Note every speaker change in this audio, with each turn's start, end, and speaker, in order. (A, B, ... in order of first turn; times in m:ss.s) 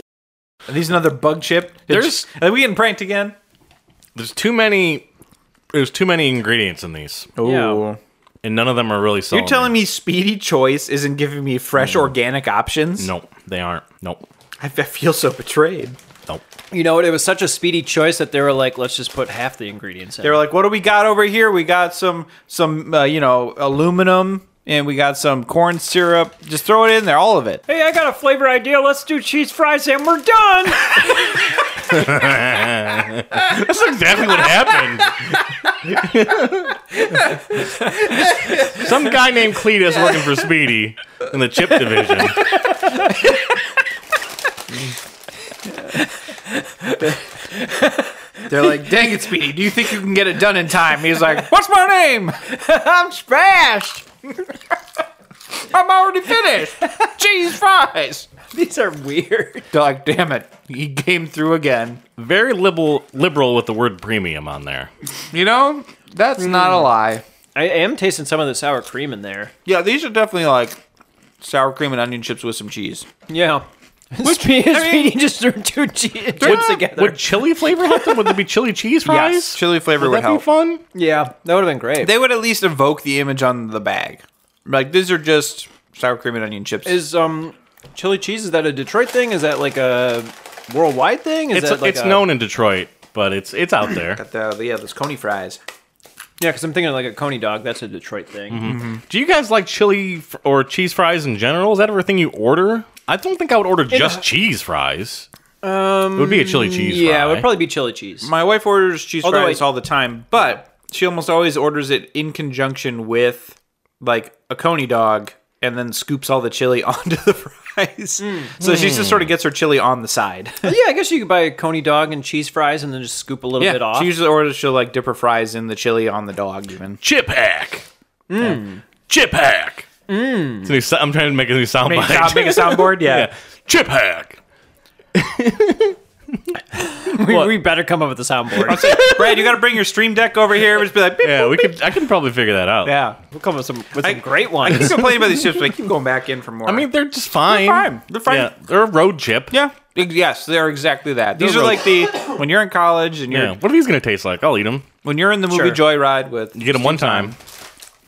0:00.7-0:03.4 A
0:01.9-0:02.3 B
0:04.2-0:05.1 B
0:05.7-0:07.3 B
0:07.4-0:08.0 A
0:07.4-0:07.8 C
0:08.4-0:09.8 B
0:09.3-0:13.1 A
0:11.8-0:12.1 B
0:13.0-0:14.3 B
0:14.6-0:16.0 A
0:16.7-0:20.4 C
0:20.2-0:27.6 A
0:27.7-0:31.5 C
0:31.8-0:37.3 B
0:37.2-0:38.1 C
0:38.6-0:42.6 B
0:42.5-0:43.1 C
0:46.0-0:48.1 C
0:48.5-0:52.4 A
0:52.5-0:54.0 C
0:55.7-0:58.3 A
0:58.5-0:59.7 C
0:59.7-1:02.0 A
1:02.2-1:04.9 B
1:05.3-1:07.2 A
1:06.4-1:06.9 C
1:07.6-1:09.5 C
1:09.6-1:10.8 A
1:11.4-1:13.1 A
1:13.3-1:18.4 C
1:14.2-1:15.2 A
1:16.4-1:20.8 B
1:19.0-1:20.4 A
1:20.9-1:22.2 C
1:22.0-1:27.0 A
1:26.8-1:32.3 C
1:31.5-1:34.2 B
1:34.0-1:35.6 A
1:36.4-1:38.8 C
1:38.5-1:45.3 B
1:38.6-1:39.0 A
1:43.9-1:44.2 C
1:45.6-1:48.3 C
1:46.1-1:47.5 B
1:48.2-2:00.8 A
1:49.2-1:49.6 C
1:58.2-1:58.6 C
1:58.6-1:59.3 B
2:00.6-2:04.2 C
2:03.6-2:07.0 A
2:07.0-2:07.9 B
2:08.3-2:08.8 C
2:09.1-2:09.9 B
2:10.1-2:10.7 C
2:10.6-2:14.4 B
2:11.8-2:13.3 A
2:15.2-2:16.6 B
2:16.8-2:19.0 C
2:17.1-2:17.5 B
2:18.6-2:21.8 A
2:18.7-2:19.6 B
2:21.2-2:23.0 B
2:22.8-2:23.2 A
2:23.3-2:25.2 C
2:24.0-2:28.5 A
2:24.7-2:25.7 B
2:26.7-2:29.6 B
2:29.5-2:33.6 A
2:31.4-2:32.3 C
2:33.3-2:34.9 B
2:35.0-2:37.4 A
2:36.6-2:37.4 B